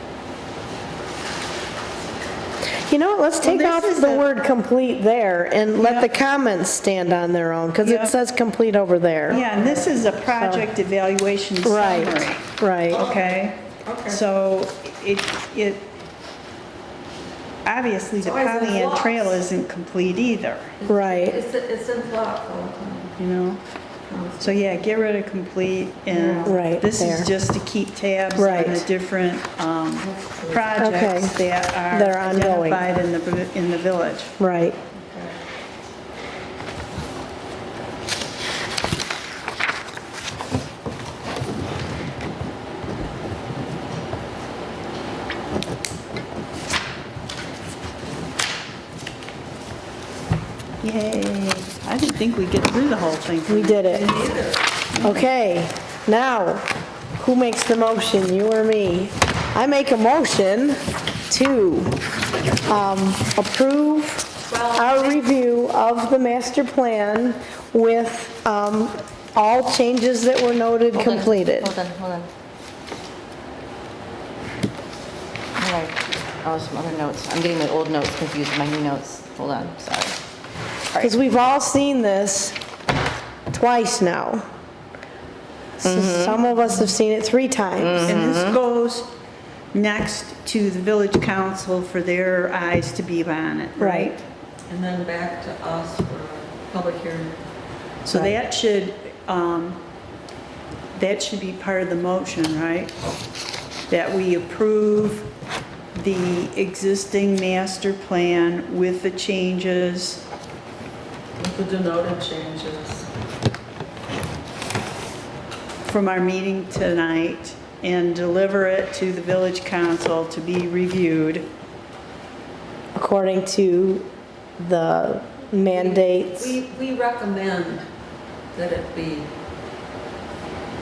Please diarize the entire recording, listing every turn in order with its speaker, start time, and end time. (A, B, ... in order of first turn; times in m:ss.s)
0:02.9-0:09.5 A
0:03.4-0:04.3 B
0:05.8-0:06.1 B
0:07.8-0:08.1 B
0:09.3-0:15.9 B
0:09.5-0:09.8 C
0:10.3-0:10.7 A
0:11.6-0:13.0 A
0:12.9-0:13.3 C
0:13.8-0:14.2 C
0:17.6-0:20.8 B
0:18.2-0:19.4 C
0:20.8-0:23.2 C
0:20.9-0:21.4 A
0:23.2-0:23.6 B
0:24.1-0:24.9 C
0:24.4-0:34.4 B
0:26.1-0:26.6 C
0:26.4-0:27.3 A
0:28.4-0:28.9 A
0:30.0-0:30.8 C
0:30.8-0:31.4 A
0:31.9-0:32.8 A
0:34.4-0:34.8 A
0:35.0-0:35.4 C
0:50.8-0:54.2 B
0:53.5-0:54.1 A
0:54.0-0:54.7 C
0:55.0-1:02.0 A
1:02.6-1:11.7 A
1:04.5-1:05.2 C
1:10.9-1:12.3 D
1:15.6-1:20.2 D
1:20.9-1:21.2 D
1:21.0-1:22.6 A
1:23.5-1:24.5 A
1:25.8-1:28.1 A
1:25.8-1:26.4 D
1:27.8-1:28.6 D
1:28.1-1:29.1 B
1:29.7-1:34.2 B
1:33.8-1:34.1 A
1:34.7-1:37.4 C
1:38.0-1:39.8 B
1:41.0-1:42.9 B
1:43.9-1:45.3 B
1:45.9-1:50.2 B
1:51.4-1:53.1 C
1:55.9-2:01.5 B
2:03.0-2:04.1 A
2:04.6-2:06.6 A
2:05.7-2:07.9 C
2:08.5-2:09.3 C